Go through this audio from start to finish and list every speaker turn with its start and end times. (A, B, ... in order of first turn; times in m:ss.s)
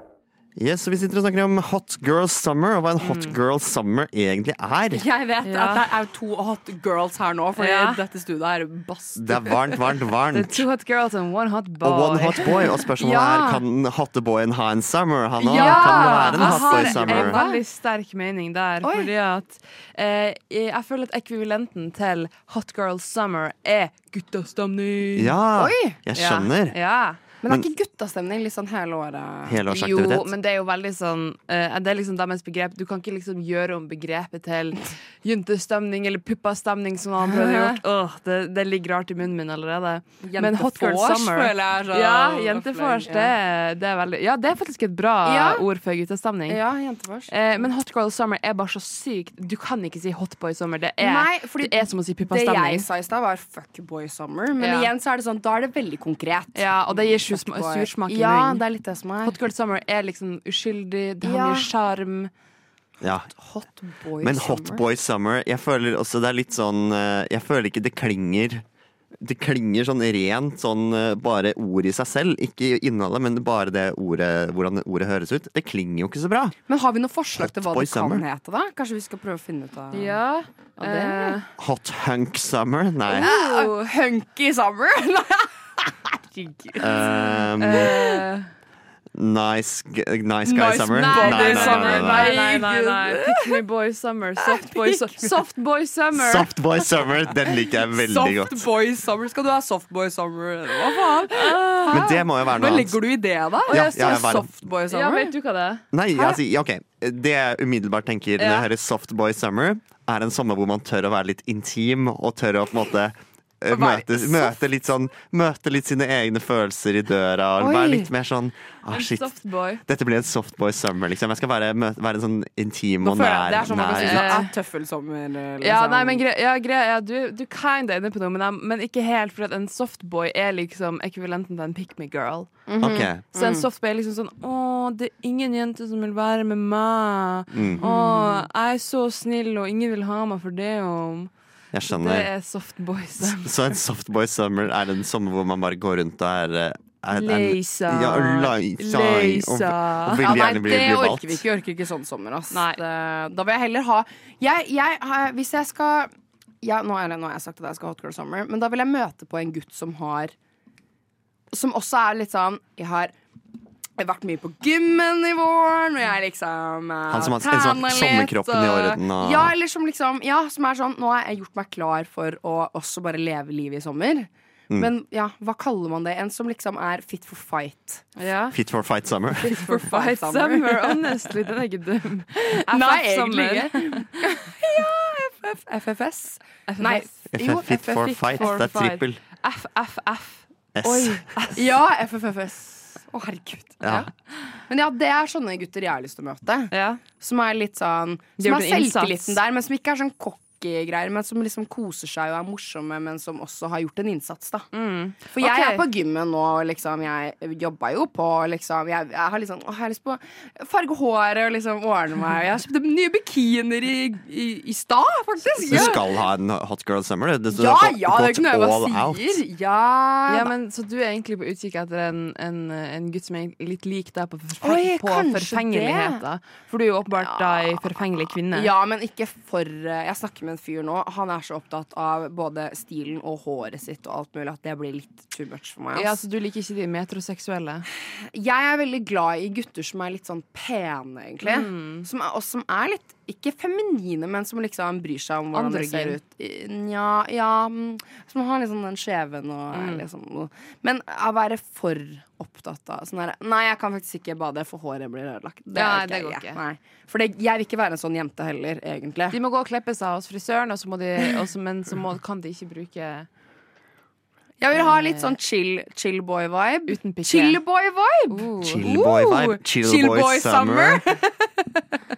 0:00.6-0:05.0 A
0:03.0-0:03.4 B
0:04.9-0:09.8 C
0:05.4-0:05.9 B
0:07.6-0:08.0 B
0:09.2-0:10.7 A
0:10.3-0:12.5 B
0:11.8-0:17.4 A
0:13.0-0:13.6 C
0:15.4-0:17.6 C
0:15.4-0:25.4 B
0:18.8-0:19.1 C
0:25.2-0:26.8 A
0:25.6-0:26.0 C
0:26.2-0:27.2 B
0:27.4-0:29.6 C
0:29.5-0:30.3 A
0:29.7-0:46.6 B
0:37.4-0:37.8 C
0:40.2-0:43.3 C
0:45.2-0:45.7 C
0:46.5-0:47.7 C
0:47.3-0:52.9 B
0:51.0-0:59.4 C
0:54.6-0:54.9 B
0:56.6-0:58.6 B
0:59.2-1:02.3 B
1:01.2-1:01.7 C
1:03.0-1:03.3 A
1:03.3-1:04.9 C
1:04.2-1:08.6 A
1:09.2-1:16.6 A
1:16.7-1:20.2 C
1:17.4-1:18.2 A
1:19.9-1:21.5 B
1:20.8-1:21.4 C
1:21.6-1:23.3 A
1:23.1-1:28.2 C
1:23.2-1:23.8 B
1:26.8-1:27.9 A
1:27.6-1:28.5 B
1:29.2-1:32.5 A
1:30.5-1:33.6 C
1:31.0-1:36.5 B
1:34.4-1:35.4 C
1:36.1-1:38.6 A
1:37.7-1:45.3 C
1:41.3-1:42.1 B
1:41.9-1:43.0 A
1:43.7-1:45.8 B
1:43.7-1:44.5 A
1:45.9-1:59.3 A
1:48.4-1:48.7 B
1:53.7-1:54.6 C
1:57.6-1:58.1 C
1:58.9-1:59.8 B
1:59.8-2:04.4 A
2:03.0-2:06.2 C
2:04.0-2:04.5 B
2:05.6-2:12.6 B
2:12.7-2:13.7 C
2:12.8-2:13.2 A
2:13.3-2:21.3 B
2:17.5-2:17.8 A
2:17.8-2:18.5 C
2:21.7-2:22.3 A
2:21.9-2:23.7 B
2:23.4-2:31.4 A
2:27.1-2:30.4 B
2:30.2-2:36.1 C
2:32.5-2:32.8 B
2:36.6-2:40.3 C
2:41.5-2:43.2 C
2:44.0-2:58.1 C
2:47.1-2:49.5 A
2:58.2-2:58.6 B
2:58.5-2:59.5 A
2:59.4-3:01.3 C
2:59.5-3:04.3 B
3:02.7-3:08.7 C
3:06.7-3:07.2 B
3:07.3-3:09.2 A
3:08.3-3:11.8 B
3:10.8-3:11.3 A
3:11.6-3:14.1 C
3:13.8-3:14.1 A
3:14.7-3:24.7 C
3:16.7-3:17.0 B
3:18.4-3:19.4 B
3:24.7-3:25.9 B
3:25.4-3:36.0 C
3:35.7-3:39.4 A
3:37.5-3:40.5 C
3:40.3-3:48.7 B
3:44.6-3:46.2 C
3:47.1-3:56.2 C
3:56.0-3:57.9 B
3:58.0-4:19.4 C
4:01.4-4:02.1 B
4:05.5-4:06.2 B
4:09.7-4:10.0 B
4:15.7-4:16.6 B
4:19.3-4:23.3 B
4:24.6-4:32.0 C
4:24.7-4:25.3 B
4:26.9-4:27.6 B
4:28.3-4:29.0 B
4:28.6-4:31.0 A